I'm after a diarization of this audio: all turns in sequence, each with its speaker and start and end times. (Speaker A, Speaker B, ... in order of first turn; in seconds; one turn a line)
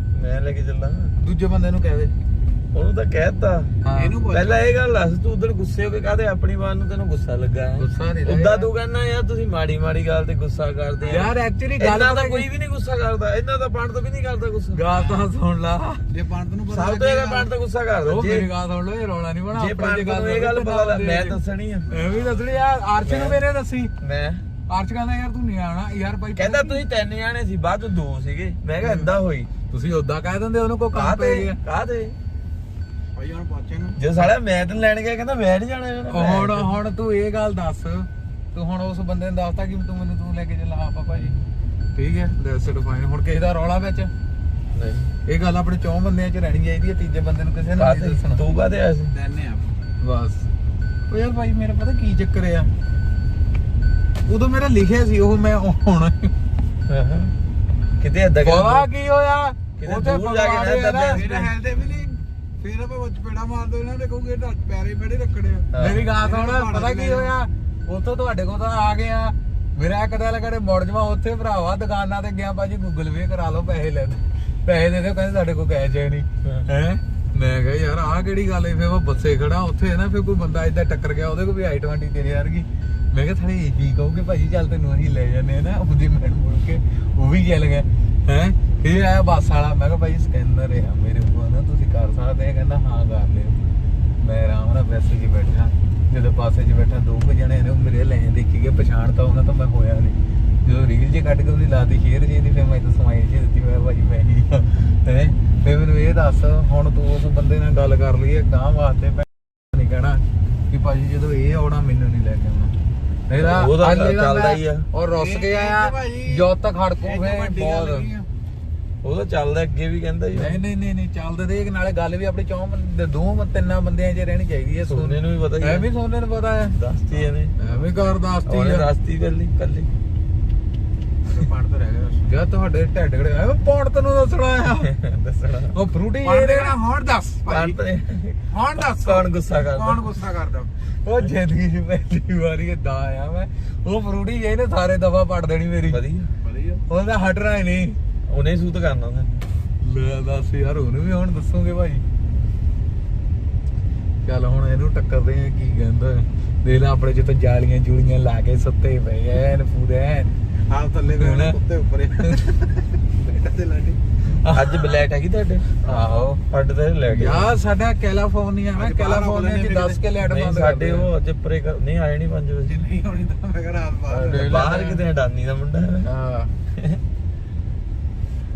Speaker A: 0.1-1.2
Speaker B: 1.2-2.1
Speaker A: 2.7-3.7
Speaker B: 3.8-4.3
Speaker C: 3.9-4.7
Speaker A: 4.3-15.2
Speaker B: 7.8-8.7
Speaker B: 11.1-12.5
Speaker B: 14.7-16.0
Speaker C: 16.1-17.5
Speaker A: 16.7-18.5
Speaker B: 18.0-21.4
Speaker A: 19.5-21.9
Speaker C: 21.9-22.6
Speaker B: 21.9-23.9
Speaker A: 23.0-23.4
Speaker A: 24.0-24.4
Speaker B: 24.7-26.8
Speaker A: 26.4-29.5
Speaker B: 28.8-29.1
Speaker B: 29.7-31.6
Speaker A: 30.9-32.1
Speaker C: 33.1-34.0
Speaker A: 34.0-36.8
Speaker B: 36.1-41.4
Speaker B: 42.0-44.1
Speaker A: 44.7-45.1
Speaker B: 45.3-48.4
Speaker A: 47.8-49.1
Speaker C: 49.1-49.7
Speaker B: 50.0-50.5
Speaker B: 51.1-52.7
Speaker B: 54.2-56.3
Speaker A: 56.9-57.3
Speaker A: 58.0-58.9
Speaker B: 58.4-61.4
Speaker A: 59.8-61.5
Speaker C: 61.1-67.3
Speaker A: 65.7-66.0
Speaker B: 65.8-93.6
Speaker B: 94.2-112.7
Speaker B: 113.3-118.1
Speaker A: 113.4-114.8
Speaker C: 115.1-116.5
Speaker C: 117.0-118.3
Speaker A: 119.0-120.6
Speaker B: 120.3-126.8
Speaker A: 124.9-125.9
Speaker A: 126.7-127.5
Speaker B: 127.6-128.9
Speaker C: 127.7-128.0
Speaker A: 128.5-129.9
Speaker C: 131.2-132.2
Speaker B: 132.3-134.9
Speaker A: 134.8-135.8
Speaker B: 135.7-136.8
Speaker C: 136.2-137.8
Speaker A: 137.5-140.2
Speaker C: 138.5-140.7
Speaker B: 141.0-146.0
Speaker A: 145.9-146.3
Speaker C: 146.4-146.8
Speaker B: 146.9-148.0
Speaker A: 148.3-149.4
Speaker B: 149.8-152.0
Speaker B: 154.2-160.3
Speaker C: 160.7-162.6
Speaker B: 161.2-161.6
Speaker C: 163.1-164.0
Speaker B: 164.3-164.8
Speaker A: 164.5-165.7
Speaker B: 165.8-166.4
Speaker A: 166.5-167.5
Speaker B: 167.1-171.1
Speaker C: 168.7-170.0
Speaker A: 170.2-172.9
Speaker B: 172.7-173.3
Speaker C: 173.3-174.7
Speaker B: 174.1-175.0
Speaker A: 174.2-176.1
Speaker B: 176.0-176.5